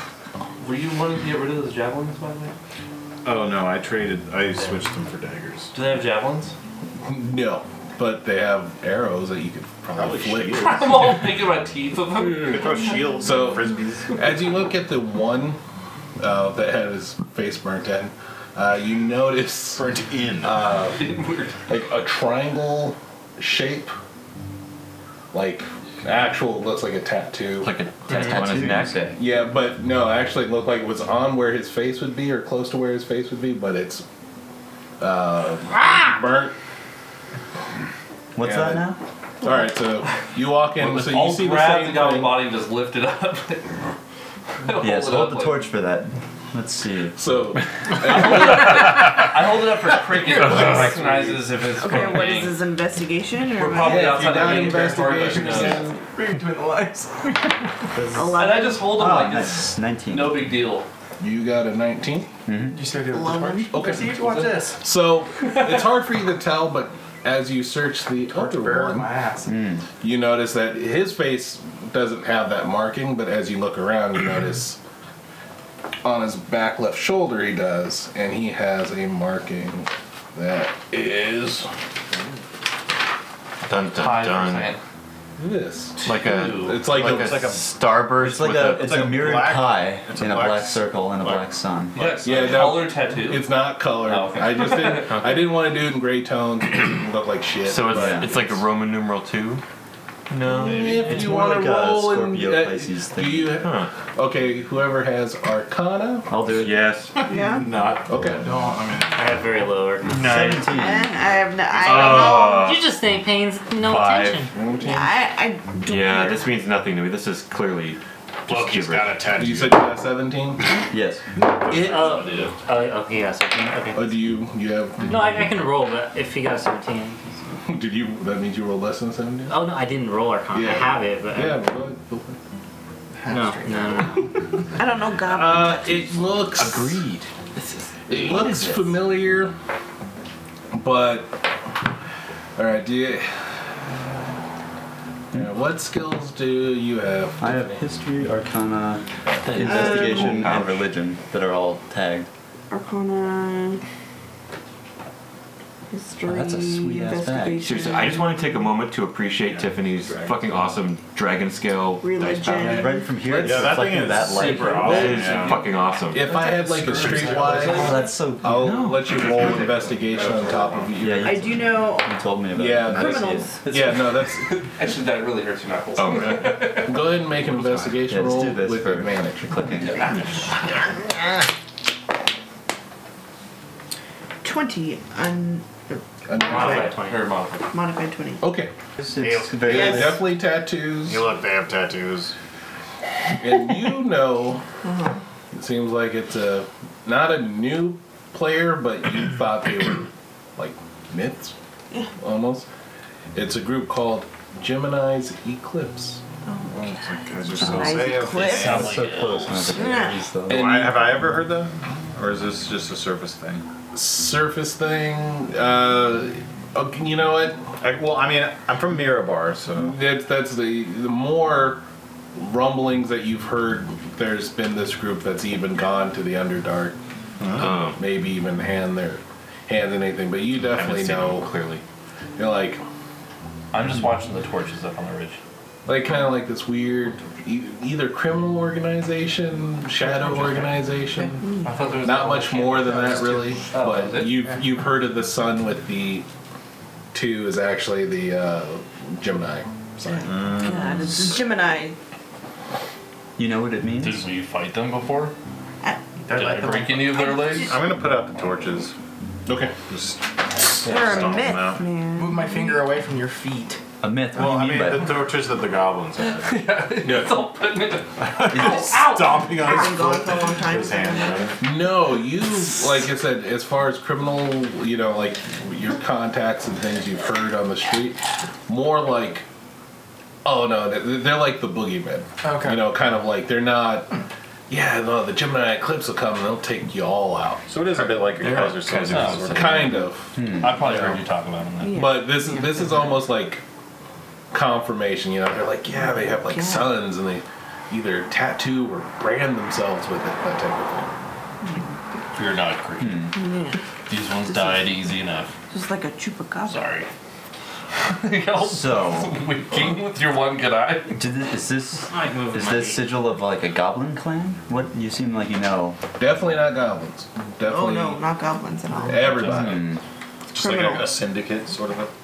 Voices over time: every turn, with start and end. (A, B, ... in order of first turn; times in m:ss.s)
0:00.6-0:02.5 A
0:03.2-0:05.7 B
0:05.7-0:06.5 A
0:07.0-0:11.0 C
0:09.9-0:11.2 B
0:10.6-0:13.0 A
0:12.3-0:14.3 B
0:13.2-0:15.6 C
0:16.2-0:23.9 C
0:19.7-0:20.6 B
0:20.9-0:21.6 A
0:25.3-0:27.7 C
0:27.6-0:29.1 D
0:28.1-0:29.2 E
0:29.1-0:34.0 C
0:35.0-0:36.5 C
0:38.3-0:39.0 E
0:38.4-0:38.9 C
0:39.4-0:42.4 C
0:40.8-0:43.9 A
0:44.6-0:45.6 A
0:44.7-0:47.2 E
0:47.1-0:49.0 C
0:48.0-0:52.6 A
0:50.3-0:50.9 D
0:51.0-0:51.4 F
0:51.7-0:54.4 G
0:53.5-0:55.9 A
0:53.8-0:55.9 C
0:54.4-0:57.4 F
0:57.9-1:00.5 E
0:58.1-0:59.0 G
0:58.3-1:00.9 A
1:01.2-1:02.3 C
1:02.4-1:02.8 E
1:02.7-1:04.8 F
1:03.1-1:04.0 G
1:03.7-1:09.1 C
1:08.3-1:09.6 F
1:09.4-1:09.8 E
1:10.0-1:14.8 C
1:16.0-1:21.7 C
1:23.6-1:24.7 D
1:23.9-1:24.8 A
1:25.4-1:27.5 C
1:26.0-1:29.1 D
1:26.0-1:26.8 A
1:26.8-1:27.7 B
1:28.2-1:32.0 E
1:28.7-1:30.9 B
1:31.9-1:35.2 A
1:32.2-1:38.6 C
1:35.1-1:35.4 D
1:37.6-1:39.6 D
1:37.9-1:38.3 E
1:40.3-1:41.2 D
1:40.5-1:46.4 C
1:40.8-1:43.6 E
1:43.6-1:43.9 D
1:46.3-1:46.9 E
1:46.5-1:47.2 D
1:47.2-1:49.4 B
1:47.2-1:47.7 G
1:48.1-1:48.4 C
1:49.1-1:50.2 H
1:50.0-1:50.8 D
1:50.1-1:51.1 E
1:50.7-1:52.7 G
1:51.8-1:52.9 D
1:52.6-1:54.5 H
1:53.8-1:54.5 D
1:54.5-1:55.0 C
1:54.8-1:56.5 G
1:55.8-1:59.6 D
1:58.4-1:59.8 B
1:59.4-2:00.6 C
2:00.9-2:01.2 E
2:01.7-2:02.6 A
2:01.7-2:02.2 C
2:01.7-2:04.1 H
2:03.9-2:05.6 C
2:05.0-2:07.4 H
2:07.6-2:09.8 C
2:09.5-2:11.6 H
2:10.5-2:12.4 C
2:13.2-2:14.2 F
2:13.3-2:14.4 H
2:14.7-2:16.2 G
2:15.2-2:17.0 C
2:16.5-2:18.9 D
2:18.1-2:19.5 C
2:20.7-2:21.4 C
2:22.6-2:23.3 C
2:25.3-2:27.8 C
2:27.4-2:32.3 E
2:29.3-2:29.6 C
2:29.4-2:30.8 D
2:29.6-2:30.4 G
2:32.7-2:33.8 G
2:35.9-2:38.3 G
2:36.2-2:37.8 E
2:37.6-2:42.8 D
2:39.4-2:40.7 B
2:42.0-2:43.1 G
2:42.4-2:45.4 E
2:43.4-2:45.7 B
2:44.3-2:45.5 A
2:44.8-2:46.4 D
2:46.1-2:51.7 C
2:46.5-2:48.1 A
2:46.9-2:48.0 B
2:47.5-2:48.8 E
2:48.5-2:49.7 D
2:50.0-2:51.0 B
2:51.0-2:53.5 E
2:51.2-2:52.2 G
2:52.5-2:54.5 C
2:52.8-2:53.6 G
2:53.6-2:57.2 A
2:56.0-2:56.7 D
2:56.1-2:59.7 C
2:58.0-3:00.2 E
2:59.8-3:00.1 A
3:04.4-3:06.9 G
3:06.3-3:07.0 C
3:06.4-3:07.3 H
3:06.9-3:07.6 A
3:07.7-3:08.5 G
3:08.4-3:08.7 C
3:09.0-3:10.2 E
3:09.2-3:10.0 B
3:09.6-3:11.3 C
3:09.7-3:10.2 G
3:11.0-3:12.3 B
3:13.4-3:14.6 C
3:14.8-3:15.2 G
3:15.5-3:21.5 C
3:22.2-3:22.6 C
3:23.3-3:26.2 C
3:26.4-3:29.0 G
3:26.7-3:29.0 B
3:28.4-3:29.8 A
3:28.4-3:30.9 E
3:29.6-3:30.2 G
3:30.4-3:33.6 B
3:30.5-3:31.0 A
3:33.9-3:37.6 C
3:37.8-3:40.0 B
3:39.8-3:41.8 C
3:42.4-3:47.0 C
3:47.4-3:47.8 B
3:47.5-3:48.0 D
3:47.9-3:51.5 C
3:50.6-3:51.8 D
3:52.4-3:52.8 C
3:53.7-3:55.4 A
3:55.9-4:01.5 C
4:00.2-4:00.7 A
4:01.2-4:02.0 F
4:01.4-4:01.7 G
4:01.6-4:04.5 A
4:02.0-4:06.2 C
4:03.0-4:03.4 F
4:07.1-4:10.7 C
4:10.0-4:12.0 G
4:10.2-4:10.9 B
4:13.4-4:14.3 E
4:14.0-4:15.3 A
4:16.3-4:18.9 B
4:16.3-4:17.7 A
4:16.9-4:17.9 G
4:19.4-4:19.7 C
4:19.9-4:21.8 B
4:20.8-4:22.8 G
4:22.1-4:23.8 F
4:24.0-4:25.2 E
4:24.3-4:26.6 B
4:26.4-4:29.7 A
4:27.0-4:27.4 C
4:28.2-4:31.6 B
4:29.4-4:31.5 G
4:31.6-4:39.4 C
4:40.4-4:44.2 C
4:42.4-4:42.9 F
4:44.7-4:48.2 C
4:47.7-4:50.1 B
4:48.4-4:49.8 D
4:49.0-4:49.7 A
4:49.4-4:51.1 C
4:50.4-4:50.8 E
4:50.4-4:52.0 A
4:51.8-4:52.9 G
4:51.9-4:53.6 C
4:54.5-5:01.1 C
4:55.9-4:57.0 G
5:01.6-5:01.9 G
5:02.3-5:03.2 A
5:03.0-5:03.3 E
5:03.3-5:03.8 G
5:04.1-5:05.5 A
5:04.4-5:04.9 G
5:05.7-5:06.9 G
5:06.6-5:07.1 A
5:08.1-5:11.2 A
5:08.6-5:09.4 E
5:11.2-5:16.0 E
5:12.1-5:13.1 H
5:16.2-5:18.2 C
5:17.6-5:19.6 G
5:19.1-5:19.9 C
5:19.3-5:19.7 A
5:19.4-5:20.0 E
5:20.5-5:22.1 B
5:20.5-5:21.2 G